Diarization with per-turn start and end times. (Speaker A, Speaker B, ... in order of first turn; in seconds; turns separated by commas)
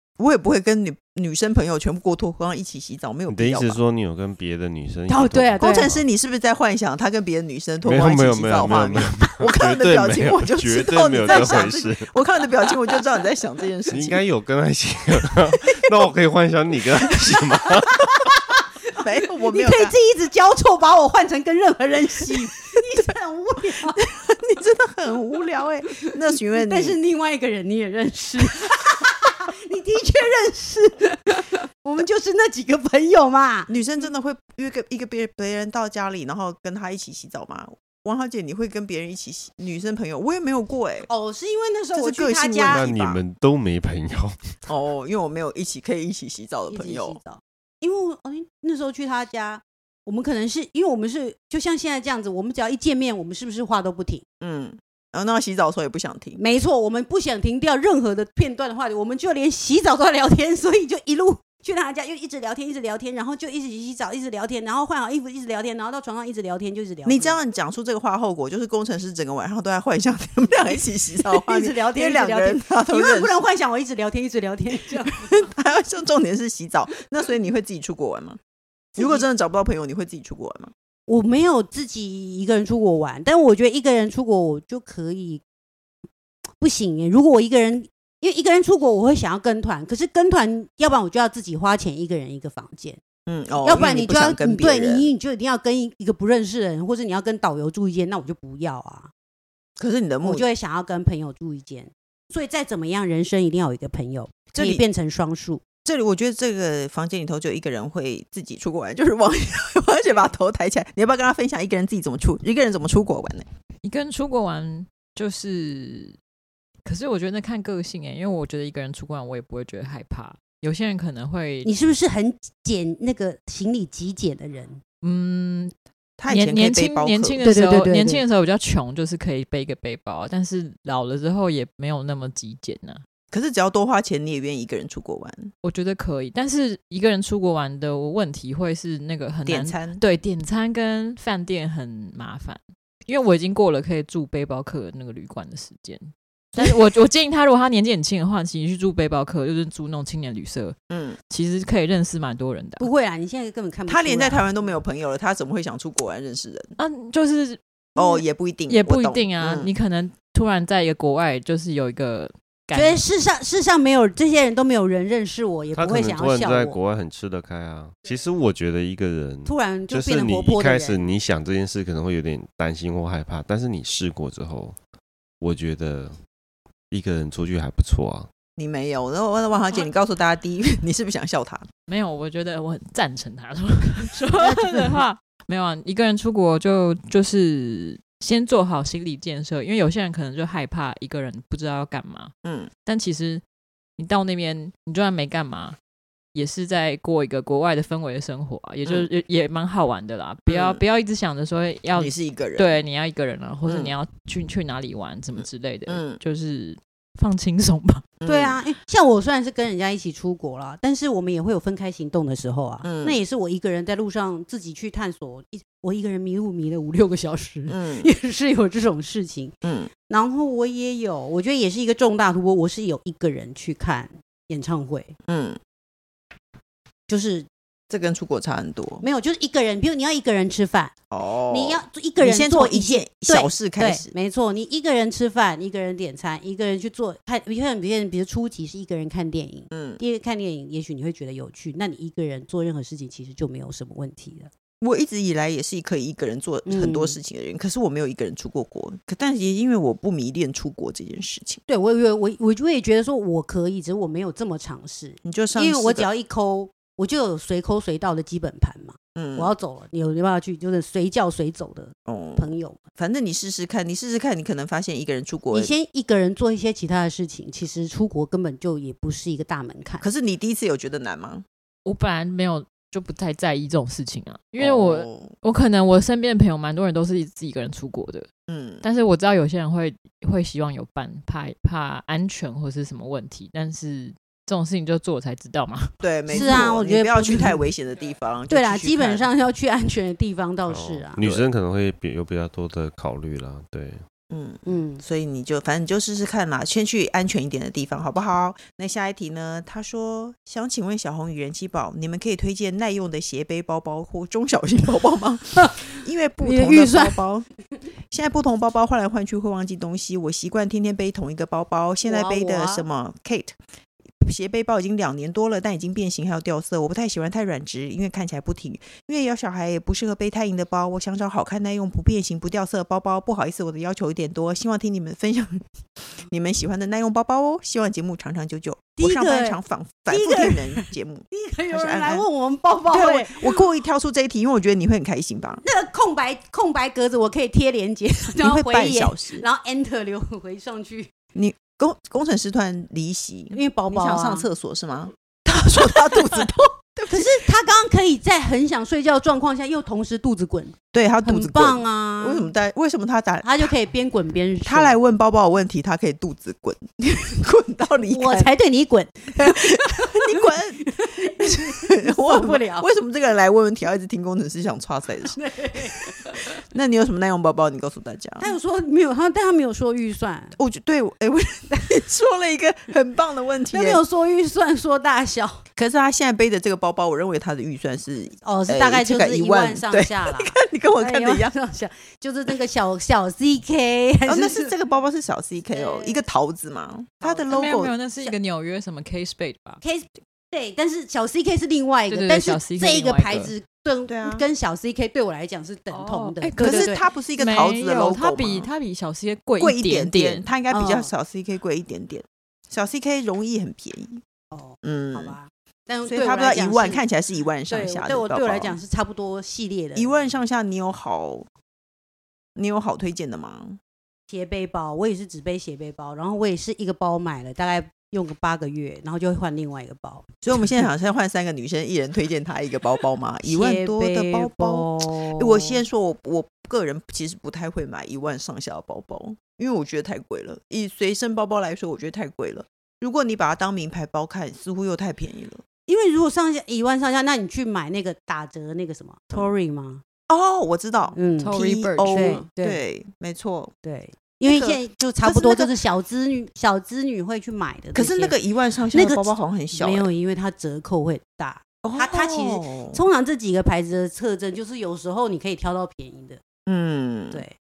Speaker A: 0.2-3.8, Speaker B: 3.3-5.6, Speaker C: 5.1-6.0, Speaker A: 5.6-14.2, Speaker B: 7.8-12.1, Speaker C: 11.2-11.7, Speaker B: 13.9-17.9, Speaker A: 18.9-19.9, Speaker C: 19.4-24.1, Speaker A: 23.9-27.0, Speaker C: 26.6-33.8, Speaker A: 33.7-41.1, Speaker C: 41.1-42.9, Speaker A: 41.9-43.2, Speaker B: 42.7-44.6, Speaker A: 44.7-47.2, Speaker C: 46.7-54.2, Speaker A: 54.4-56.4, Speaker C: 56.4-67.4, Speaker A: 67.0-73.4, Speaker C: 70.7-75.5, Speaker A: 75.3-78.4, Speaker C: 79.0-79.3, Speaker A: 79.0-80.7, Speaker C: 81.1-85.4, Speaker C: 86.6-93.0, Speaker A: 93.2-95.1, Speaker C: 93.6-99.1, Speaker A: 99.8-100.5, Speaker C: 100.2-105.6, Speaker A: 104.5-104.8, Speaker A: 105.8-113.5, Speaker D: 113.8-116.2, Speaker D: 116.8-121.7, Speaker C: 121.6-124.8, Speaker D: 125.0-125.7, Speaker A: 126.2-127.5, Speaker D: 126.3-133.0, Speaker C: 127.4-128.2, Speaker A: 133.3-135.5, Speaker D: 135.6-150.8, Speaker A: 139.5-140.0, Speaker A: 150.9-151.2, Speaker D: 151.3-152.9, Speaker C: 152.8-154.7, Speaker A: 153.9-156.8, Speaker D: 156.8-163.0, Speaker A: 158.0-159.7, Speaker C: 162.7-166.8, Speaker B: 165.7-174.8, Speaker C: 169.4-171.1, Speaker B: 175.4-176.2, Speaker B: 176.9-178.3, Speaker A: 178.6-181.7, Speaker D: 181.9-192.3, Speaker C: 184.4-185.0, Speaker A: 192.4-192.7, Speaker D: 192.8-193.4, Speaker D: 194.0-195.8, Speaker D: 196.3-208.1, Speaker A: 200.5-200.8, Speaker A: 201.9-202.8, Speaker A: 203.7-203.9, Speaker A: 205.9-206.2, Speaker A: 208.2-208.6, Speaker C: 208.2-225.1, Speaker A: 212.8-213.2, Speaker A: 217.7-218.1, Speaker A: 219.6-219.9, Speaker A: 225.3-225.6, Speaker C: 227.1-227.5, Speaker A: 227.9-229.0, Speaker C: 229.0-230.9, Speaker A: 231.1-234.1, Speaker C: 231.5-244.5, Speaker A: 239.7-240.0, Speaker A: 244.8-251.6, Speaker C: 246.6-247.2, Speaker C: 251.7-262.8, Speaker A: 255.2-256.1, Speaker A: 259.1-259.5, Speaker A: 262.1-265.7, Speaker C: 265.5-270.1, Speaker A: 270.0-271.4, Speaker D: 271.9-278.3, Speaker A: 274.6-275.3, Speaker A: 278.5-278.8, Speaker D: 278.8-286.6, Speaker A: 286.0-289.3, Speaker C: 286.3-287.6, Speaker C: 288.5-291.2, Speaker B: 290.7-294.0, Speaker A: 291.2-291.5, Speaker A: 294.3-307.5, Speaker C: 294.6-295.0, Speaker C: 305.6-305.9, Speaker C: 306.4-307.2, Speaker A: 308.1-313.5, Speaker C: 312.0-312.9, Speaker A: 314.2-332.2, Speaker C: 329.0-333.6, Speaker A: 332.9-335.6, Speaker C: 335.6-341.1, Speaker A: 338.4-339.4, Speaker A: 341.4-347.3, Speaker C: 343.5-344.5, Speaker C: 347.1-352.5, Speaker A: 350.9-353.7, Speaker C: 353.4-355.0, Speaker A: 354.6-358.5, Speaker C: 358.1-362.9, Speaker A: 359.4-368.5, Speaker C: 365.2-366.1, Speaker C: 368.4-370.6, Speaker A: 370.6-374.0, Speaker C: 373.7-375.6, Speaker A: 375.8-381.5, Speaker C: 378.4-384.7, Speaker A: 384.2-388.0, Speaker C: 385.7-386.3, Speaker C: 387.2-387.5, Speaker D: 387.5-389.8, Speaker C: 389.8-397.0, Speaker D: 392.1-393.5, Speaker A: 394.1-394.4, Speaker D: 395.9-400.5, Speaker A: 396.6-398.7, Speaker A: 399.6-404.2, Speaker C: 400.7-401.1, Speaker C: 404.5-407.1, Speaker A: 404.8-405.4, Speaker A: 406.1-408.8, Speaker C: 407.7-410.1, Speaker A: 409.9-411.5, Speaker A: 412.6-413.8, Speaker C: 414.3-420.3, Speaker A: 420.4-435.6, Speaker C: 423.4-425.8, Speaker C: 435.9-440.0, Speaker A: 440.3-443.7, Speaker C: 441.1-441.6, Speaker D: 441.4-442.5, Speaker C: 442.1-442.9, Speaker C: 443.8-448.4, Speaker A: 444.4-445.8, Speaker A: 447.9-450.1, Speaker C: 448.9-456.4, Speaker A: 451.8-453.0, Speaker A: 456.6-457.4